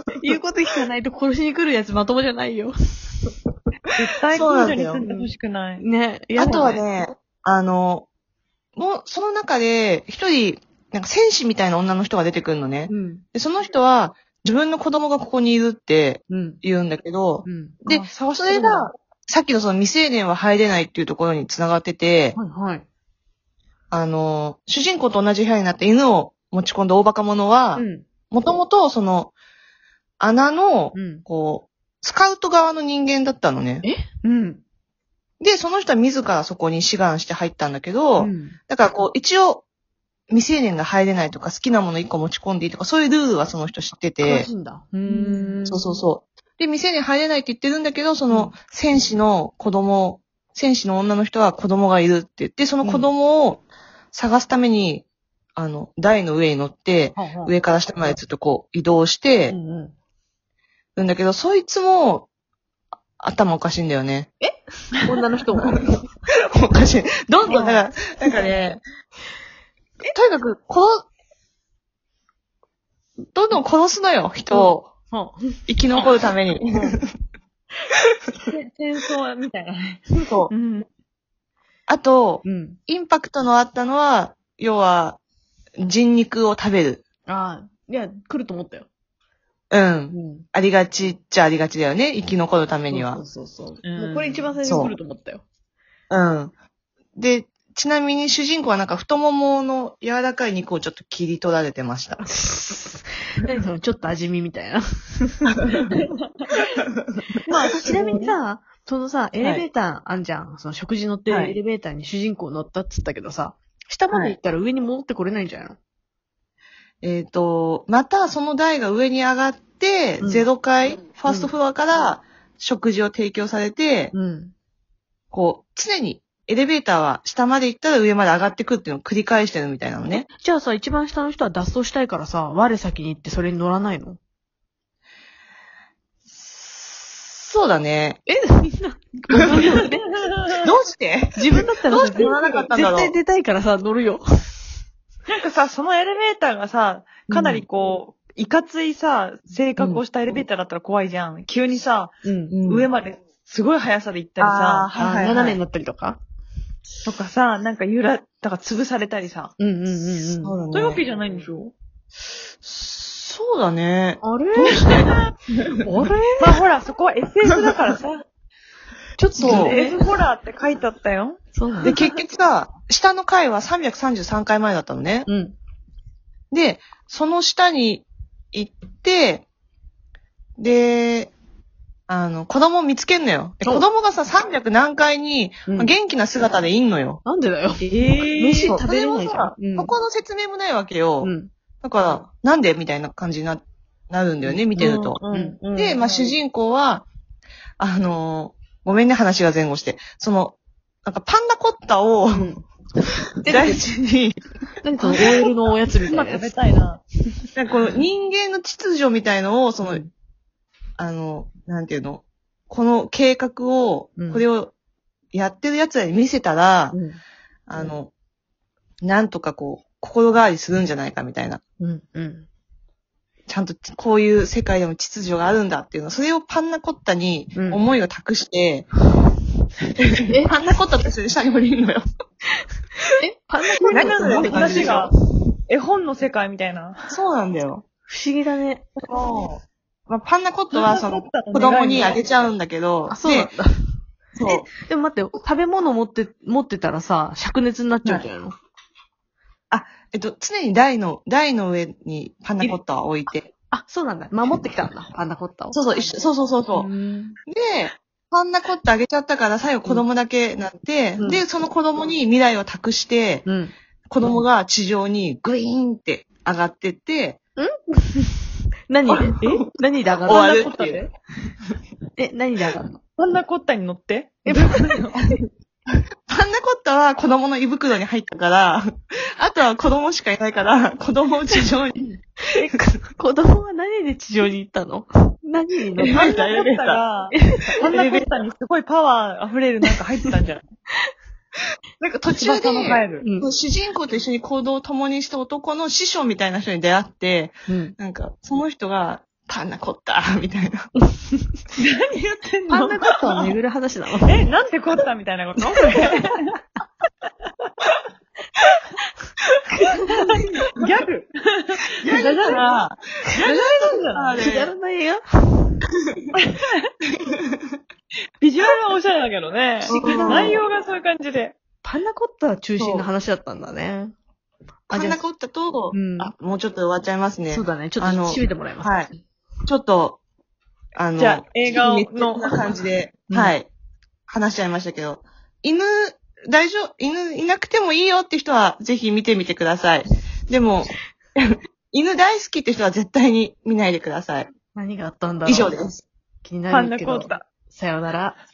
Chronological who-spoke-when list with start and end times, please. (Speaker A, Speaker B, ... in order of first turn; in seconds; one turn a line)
Speaker A: 0.1-3.3
Speaker B: 3.9-5.9
Speaker C: 4.3-5.1
Speaker A: 5.1-6.8
Speaker C: 6.4-8.1
Speaker C: 8.8-22.4
Speaker A: 12.9-13.2
Speaker A: 16.3-16.6
Speaker A: 17.4-17.8
Speaker B: 17.9-18.9
Speaker A: 22.4-22.8
Speaker C: 23.9-29.3
Speaker A: 27.8-28.1
Speaker C: 30.2-33.9
Speaker A: 30.9-31.2
Speaker A: 33.8-34.6
Speaker C: 35.4-39.6
Speaker A: 38.2-38.6
Speaker C: 40.3-44.5
Speaker A: 44.2-46.0
Speaker B: 45.3-45.6
Speaker C: 45.6-55.0
Speaker A: 52.8-53.1
Speaker C: 55.6-59.6
Speaker A: 57.1-57.5
Speaker A: 59.5-59.9
Speaker C: 61.0-62.3
Speaker C: 63.2-64.3
Speaker A: 64.4-66.1
Speaker C: 66.6-68.8
Speaker A: 67.5-67.9
Speaker C: 70.0-71.1
Speaker C: 73.3-74.9
Speaker A: 74.5-76.1
Speaker C: 75.7-77.1
Speaker B: 78.5-80.9
Speaker C: 80.2-80.5
Speaker C: 81.9-85.2
Speaker A: 82.4-82.8
Speaker C: 85.8-87.0
Speaker A: 87.3-88.9
Speaker C: 89.7-93.2
Speaker A: 90.1-90.5
Speaker A: 92.9-95.4
Speaker B: 93.8-94.5
Speaker C: 94.6-95.0
Speaker C: 96.1-96.5
Speaker C: 97.2-102.3
Speaker A: 102.2-105.5
Speaker C: 105.5-105.8
Speaker B: 105.7-106.5
Speaker B: 107.5-108.4
Speaker A: 107.8-115.8
Speaker C: 111.3-111.6
Speaker C: 117.0-124.1
Speaker A: 120.2-120.5
Speaker A: 121.3-121.5
Speaker A: 124.1-124.5
Speaker C: 125.3-130.3
Speaker A: 130.4-134.2
Speaker C: 136.8-138.2
Speaker A: 138.3-140.2
Speaker C: 139.3-139.8
Speaker B: 139.5-140.5
Speaker C: 140.6-143.2
Speaker A: 141.4-144.5
Speaker B: 142.2-142.6
Speaker B: 145.3-154.9
Speaker C: 147.3-147.6
Speaker C: 149.8-150.0
Speaker A: 152.2-152.6
Speaker C: 152.5-152.9
Speaker C: 154.4-155.6
Speaker A: 155.0-156.2
Speaker B: 157.1-159.5
Speaker A: 159.6-160.6
Speaker C: 160.4-161.0
Speaker B: 160.7-161.7
Speaker C: 162.6-164.2
Speaker A: 164.2-165.1
Speaker B: 164.6-165.3
Speaker A: 165.8-166.6
Speaker B: 166.4-168.2
Speaker A: 169.2-170.0
Speaker C: 169.4-169.8
Speaker B: 169.4-172.0
Speaker A: 171.5-172.1
Speaker C: 171.8-175.3
Speaker A: 175.3-175.6
Speaker C: 176.5-179.5
Speaker C: 180.6-181.3
Speaker C: 182.1-187.2
Speaker A: 185.7-186.0
Speaker A: 187.2-189.9
Speaker B: 187.8-188.8
Speaker C: 188.7-195.2
Speaker A: 191.2-191.5
Speaker A: 194.4-196.0
Speaker B: 194.8-196.3
Speaker C: 195.8-197.1
Speaker C: 197.8-202.6
Speaker A: 202.3-202.6
Speaker C: 203.4-204.4
Speaker A: 203.4-203.8
Speaker A: 204.8-206.6
Speaker C: 205.1-205.3
Speaker B: 206.0-207.0
Speaker C: 207.6-210.1
Speaker A: 209.8-210.1
Speaker C: 211.0-214.7
Speaker A: 214.2-214.4
Speaker C: 215.3-217.0
Speaker A: 216.9-217.2
Speaker C: 217.7-218.1
Speaker C: 219.0-221.6
Speaker A: 221.8-222.5
Speaker C: 223.5-228.9
Speaker A: 227.6-227.8
Speaker C: 230.0-232.0
Speaker A: 230.3-230.5
Speaker A: 233.0-235.1
Speaker C: 233.8-235.1
Speaker B: 233.9-235.1
Speaker B: 235.7-237.1
Speaker C: 237.1-237.8
Speaker A: 238.1-238.8
Speaker C: 239.0-243.5
Speaker B: 240.7-242.2
Speaker A: 243.1-243.7
Speaker C: 244.3-244.7
Speaker A: 244.5-248.5
Speaker C: 249.7-253.5
Speaker A: 252.6-256.1
Speaker C: 255.7-256.9
Speaker A: 256.7-257.4
Speaker C: 257.5-263.5
Speaker A: 263.5-264.4
Speaker C: 264.1-267.4
Speaker A: 267.6-268.4
Speaker A: 268.9-270.7
Speaker C: 269.1-269.7
Speaker C: 270.2-271.0
Speaker B: 270.3-271.1
Speaker A: 272.2-273.0
Speaker B: 273.2-275.3
Speaker A: 274.4-275.1
Speaker C: 276.3-282.8
Speaker A: 282.8-286.3
Speaker C: 286.0-287.0
Speaker B: 286.1-290.6
Speaker A: 287.4-287.9
Speaker C: 287.8-288.3
Speaker C: 292.0-300.9
Speaker B: 292.4-293.2
Speaker A: 292.4-293.5
Speaker A: 297.7-298.0
Speaker B: 301.8-303.5
Speaker A: 302.7-304.4
Speaker B: 304.3-306.4
Speaker B: 310.0-314.4
Speaker C: 312.0-314.7
Speaker A: 314.4-315.8
Speaker B: 316.3-316.9
Speaker B: 318.4-321.6
Speaker C: 319.9-320.6
Speaker A: 319.9-320.6
Speaker A: 321.8-324.1
Speaker C: 322.8-323.1
Speaker A: 324.9-325.2
Speaker C: 324.9-329.1
Speaker A: 325.9-326.3
Speaker A: 327.5-329.2
Speaker C: 329.7-330.2
Speaker C: 331.0-333.7
Speaker B: 331.2-332.6
Speaker A: 333.3-333.6
Speaker C: 334.3-344.5
Speaker A: 344.8-345.8
Speaker C: 345.4-346.1
Speaker A: 346.4-348.4
Speaker B: 346.7-347.5